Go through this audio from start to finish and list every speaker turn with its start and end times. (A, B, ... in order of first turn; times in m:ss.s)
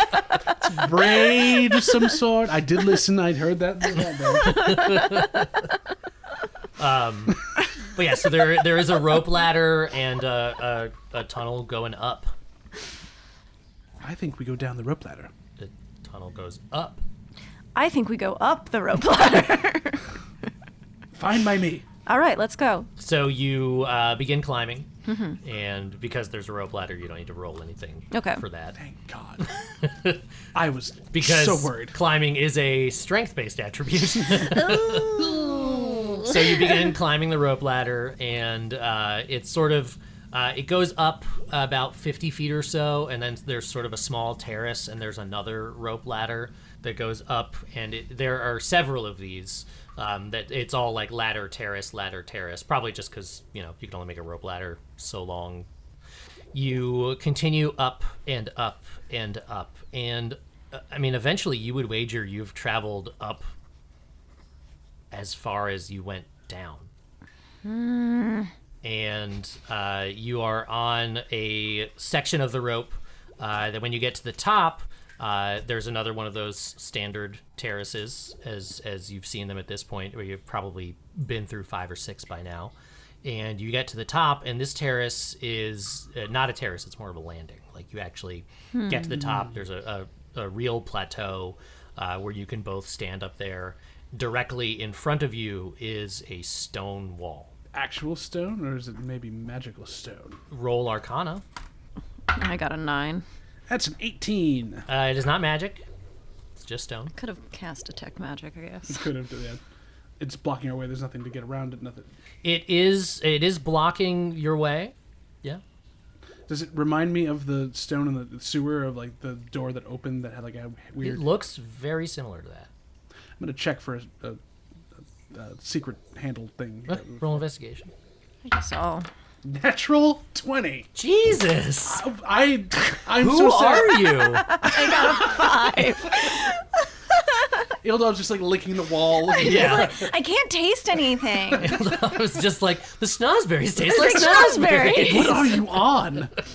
0:00.6-0:04.8 A
0:01.0-0:02.0 B
0:04.4-0:05.3 B
0:04.4-0:05.5 C
0:06.8-0:12.3 C
0:14.0-0:15.3 A
0:15.6-0:17.0 C
0:17.8-0:20.0 B
0:21.1-0:21.9 A
0:22.1-0:22.9 B
0:23.0-0:24.9 C
0:25.1-0:25.4 B
0:25.4-0:28.8 C
0:28.1-0:28.4 B
0:28.8-0:29.5 A
0:29.8-0:30.2 C
0:30.5-0:32.0 A
0:31.1-0:55.7 C
0:34.5-0:36.3 B
0:56.5-1:03.5 C
1:05.1-1:06.9 C
1:07.6-1:08.5 B
1:08.8-1:37.5 C
1:28.7-1:29.0 B
1:29.1-1:29.5 A
1:37.7-1:40.4 A
1:40.5-1:41.4 C
1:42.3-1:43.2 B
1:43.7-1:44.9 A
1:44.9-1:45.8 C
1:46.6-1:47.2 C
1:47.2-1:49.0 B
1:48.9-1:49.6 A
1:50.2-1:52.1 A
1:52.4-1:55.6 C
1:56.5-2:01.2 A
2:01.0-2:02.7 C
2:03.4-2:04.4 A
2:05.3-2:07.4 A
2:06.9-2:07.9 C
2:08.4-2:09.1 B
2:09.4-2:10.9 A
2:11.0-2:12.0 C
2:11.8-2:14.1 A
2:13.1-2:14.6 C
2:14.4-2:17.7 B
2:14.6-2:15.6 A
2:17.8-2:20.1 A
2:19.3-2:21.8 B
2:19.4-2:20.0 C
2:21.5-2:22.0 A
2:21.6-2:25.6 C
2:23.8-2:25.6 B
2:24.9-2:26.3 A